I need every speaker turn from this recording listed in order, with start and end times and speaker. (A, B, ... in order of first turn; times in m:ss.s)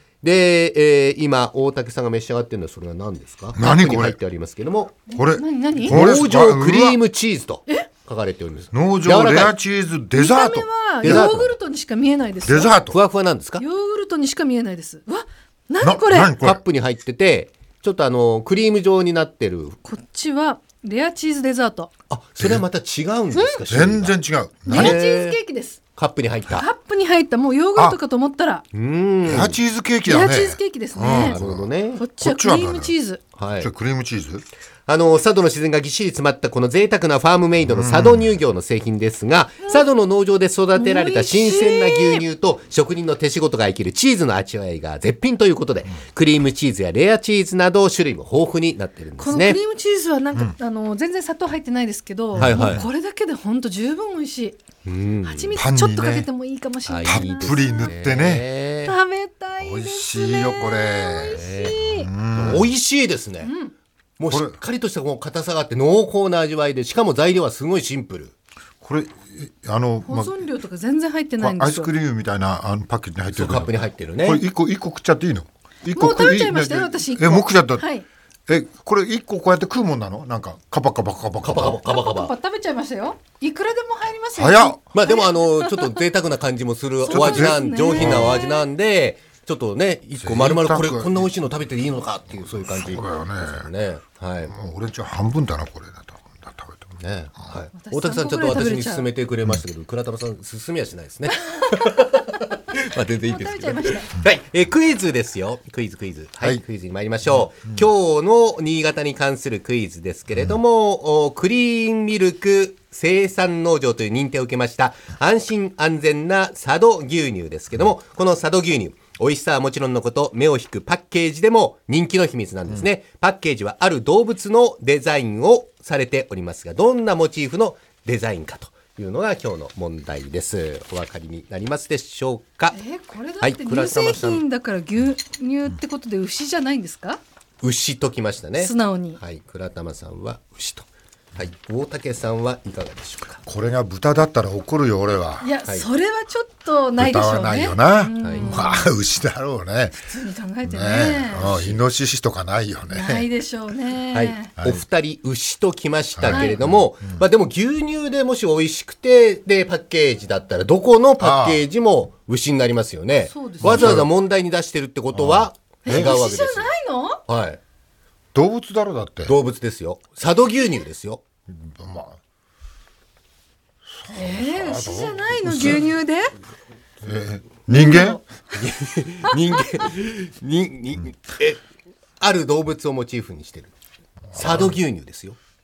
0:00.2-0:05.0 A
0:03.5-0:04.2 B
0:05.1-0:06.0 C
0:05.1-0:07.0 B
0:05.8-0:09.5 A
0:08.7-0:11.3 B
0:10.1-0:12.8 C
0:11.0-0:11.5 A
0:12.4-0:13.0 B
0:12.9-0:13.6 A
0:13.6-0:16.3 C
0:15.8-0:16.6 B
0:16.3-0:19.8 A
0:19.8-0:21.9 C
0:22.1-0:24.1 A
0:23.7-0:25.0 B
0:24.6-0:25.8 C
0:24.7-0:25.4 A
0:25.9-0:26.7 A
0:26.5-0:28.6 C
0:28.7-0:29.6 A
0:29.2-0:32.9 B
0:30.1-0:31.4 C
0:31.2-0:32.0 A
0:32.0-0:33.2 C
0:33.4-0:33.7 A
0:33.6-0:34.4 B
0:34.8-0:49.6 A
0:37.6-0:38.3 B
0:40.8-0:42.2 C
0:49.2-0:54.6 C
0:52.3-0:52.9 B
0:52.4-0:52.8 A
0:54.8-0:55.6 A
0:55.2-0:57.9 C
0:55.6-0:56.3 B
0:56.8-0:58.9 A
0:57.0-0:58.5 B
0:58.8-1:02.1 C
0:59.6-1:02.7 B
1:01.3-1:01.8 A
1:02.3-1:03.5 A
1:03.4-1:03.7 C
1:04.2-1:08.3 A
1:04.3-1:04.6 B
1:08.8-1:10.3 B
1:10.0-1:11.9 C
1:11.4-1:17.8 B
1:13.3-1:14.4 A
1:15.9-1:18.0 C
1:18.5-1:21.8 B
1:21.4-1:22.3 A
1:21.8-1:26.0 C
1:24.3-1:24.8 B
1:24.9-1:34.5 A
1:27.0-1:28.6 C
1:27.1-1:28.4 B
1:30.2-1:31.6 B
1:32.3-1:33.7 B
1:34.5-1:37.5 B
1:37.0-2:12.8 A
1:37.7-1:39.1 C
1:43.2-1:44.1 C
1:47.3-1:47.8 B
2:12.7-2:17.2 C
2:13.4-2:14.4 A
2:17.6-2:23.4 A
2:18.6-2:19.2 C
2:23.4-2:25.5 B
2:25.4-2:28.9 C
2:27.0-2:30.1 B
2:28.2-2:28.5 A
2:30.0-2:31.5 C
2:30.6-2:33.3 B
2:31.4-2:31.8 A
2:32.9-2:34.5 C
2:34.1-2:46.7 A
2:34.6-2:34.8 B
2:36.2-2:37.2 B
2:36.3-2:36.6 C
2:41.2-2:41.6 B
2:43.3-2:44.0 C
2:43.6-2:44.1 B
2:45.1-2:46.1 B
2:45.8-2:47.2 C
2:47.3-2:47.6 A
2:48.3-2:49.4 B
2:49.2-2:51.2 A
2:51.5-2:52.2 B
2:53.9-2:55.9 B
2:54.1-2:56.3 C
2:57.0-2:58.2 B
2:57.7-2:58.2 C
2:58.5-3:01.6 A
3:02.2-3:03.7 A
3:04.3-3:04.8 B
3:04.3-3:05.4 A